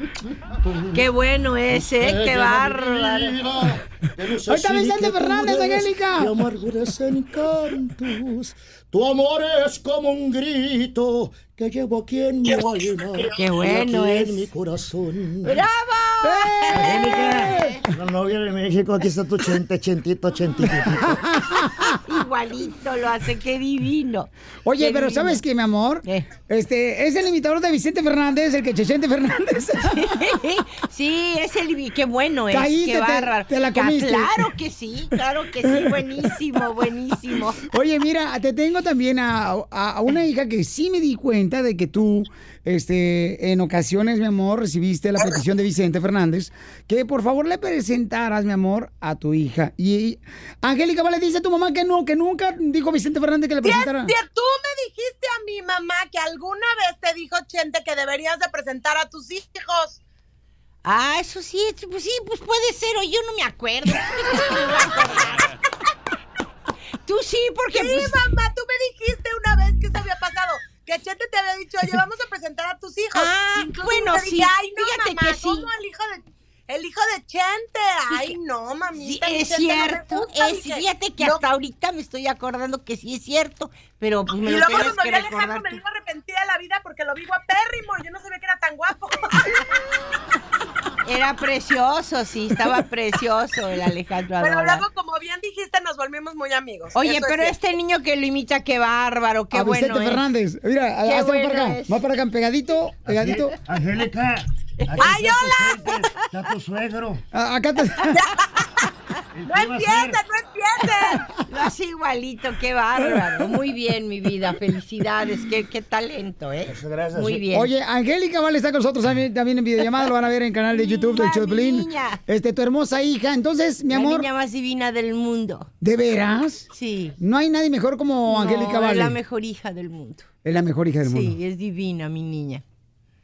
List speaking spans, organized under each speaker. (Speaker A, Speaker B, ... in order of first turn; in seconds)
Speaker A: 0.6-1.0, 1.7-15.6, 16.7-21.2, 103.1-107.2, 109.4-110.2, 116.7-117.5
Speaker B: 0.9-3.4, 13.2-14.5, 15.4-17.8, 21.9-25.4, 29.9-37.6, 60.8-65.5, 67.0-68.2, 73.2-75.7, 79.0-85.8, 91.0-94.9, 96.9-100.2, 101.0-102.0, 111.4-117.7, 120.7-122.2, 123.9-125.7, 126.7-127.2, 128.2-130.3, 131.0-132.6
Speaker C: 4.4-6.5, 16.2-16.9, 17.4-17.8, 20.9-21.9, 24.6-30.1, 32.5-34.5, 37.7-54.1, 99.5-103.6, 107.3-108.2, 117.5-124.3, 125.8-129.2, 130.4-131.4
Speaker D: 12.5-13.2, 53.6-60.0, 67.7-81.4, 84.4-89.4, 94.4-97.5, 105.0-106.0, 109.5-111.3